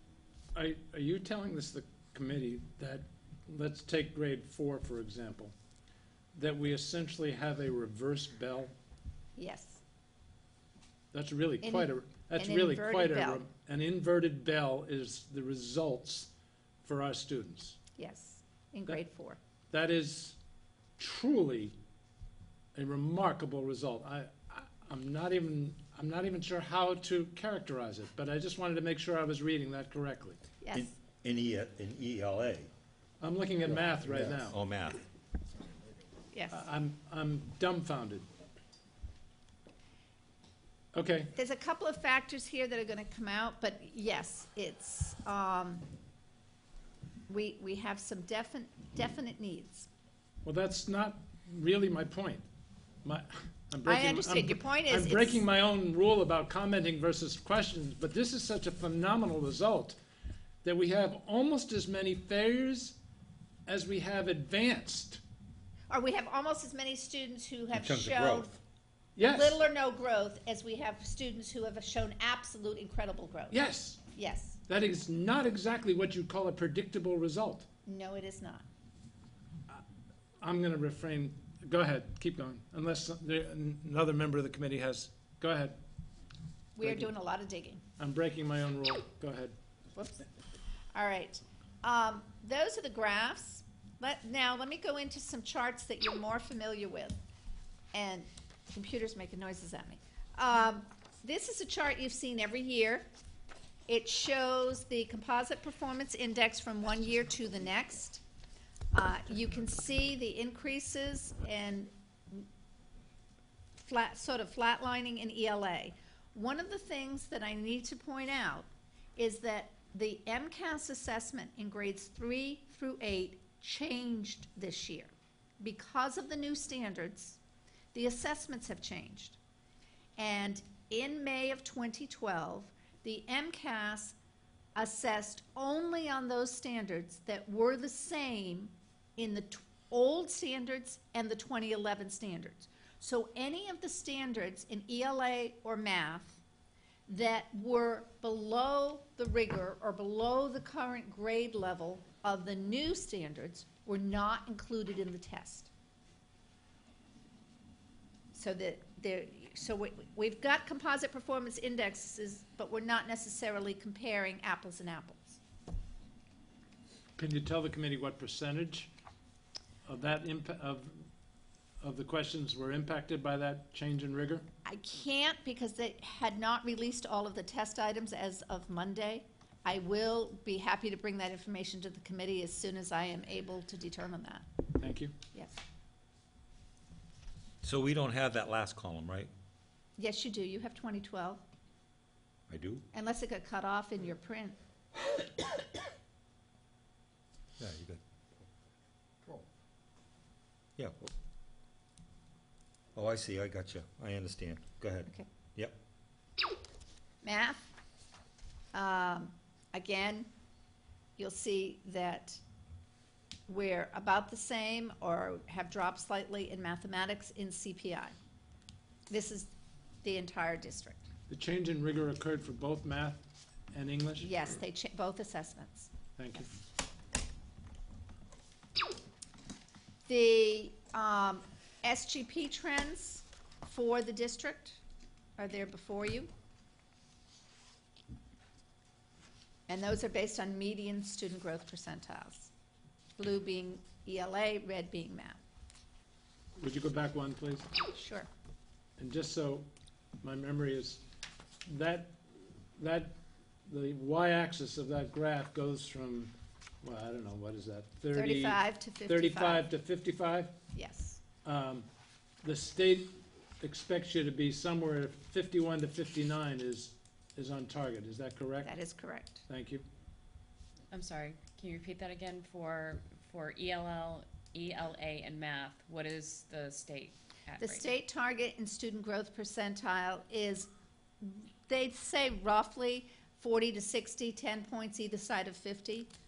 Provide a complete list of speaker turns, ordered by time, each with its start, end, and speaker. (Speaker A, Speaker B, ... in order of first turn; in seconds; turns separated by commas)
Speaker A: 0.6-5.5, Speaker A: 6.3-8.8, Speaker B: 9.4-9.8, Speaker A: 11.1-16.3, Speaker B: 11.6-13.4, Speaker A: 16.8-17.8, Speaker B: 18.0-19.4, Speaker A: 19.7-20.4, Speaker A: 21.0-21.8, Speaker A: 22.8-30.4, Speaker B: 30.6-30.9, Speaker C: 30.7-32.7, Speaker A: 33.2-34.6, Speaker C: 34.0-35.0, Speaker B: 36.3-36.7, Speaker A: 36.5-38.3, Speaker A: 40.9-41.3, Speaker B: 41.4-45.9, Speaker B: 47.3-49.9, Speaker A: 50.4-52.5, Speaker A: 53.0-60.0, Speaker B: 53.8-55.4, Speaker A: 60.6-63.0, Speaker A: 63.7-65.2, Speaker B: 65.9-68.6, Speaker C: 67.7-68.5, Speaker A: 69.2-69.6, Speaker B: 69.2-74.6, Speaker A: 73.5-74.0, Speaker A: 74.7-77.7, Speaker B: 77.9-78.7, Speaker A: 80.4-85.8, Speaker B: 86.8-87.8, Speaker A: 86.8-87.1, Speaker A: 88.0-89.5, Speaker B: 90.0-90.2, Speaker B: 90.9-97.2, Speaker B: 97.9-103.1, Speaker B: 103.9-108.2, Speaker B: 108.9-112.5, Speaker B: 113.8-127.4, Speaker B: 127.9-129.4, Speaker B: 130.2-134.2, Speaker B: 134.8-146.4, Speaker B: 147.1-155.7, Speaker B: 158.3-165.4, Speaker A: 167.2-168.9, Speaker A: 169.9-171.1, Speaker A: 171.8-174.5, Speaker B: 174.7-184.5, Speaker A: 184.8-185.2, Speaker C: 187.6-189.3, Speaker B: 190.0-191.4, Speaker C: 192.5-192.8, Speaker B: 192.9-194.6, Speaker C: 197.6-198.0, Speaker C: 200.8-201.1, Speaker C: 202.9-205.8, Speaker B: 207.2-207.7, Speaker B: 208.7-210.3, Speaker B: 211.2-212.4, Speaker B: 213.5-218.2, Speaker B: 219.1-219.5, Speaker B: 220.0-221.1, Speaker A: 221.3-224.3, Speaker B: 224.2-225.9, Speaker A: 226.2-226.5, Speaker B: 230.1-234.8, Speaker B: 235.4-236.3, Speaker B: 239.7-242.5, Speaker B: 243.2-245.4, Speaker A: 246.6-247.7, Speaker B: 247.9-248.3, Speaker A: 249.0-249.7, Speaker A: 250.2-251.0, Speaker A: 251.7-252.2, Speaker A: 252.8-260.6, Speaker B: 258.1-259.7, Speaker B: 260.7-261.2, Speaker A: 261.4-261.9, Speaker A: 262.4-268.7, Speaker B: 268.6-269.5, Speaker A: 269.5-269.9, Speaker D: 270.9-277.9, Speaker B: 277.6-280.7, Speaker B: 281.2-286.1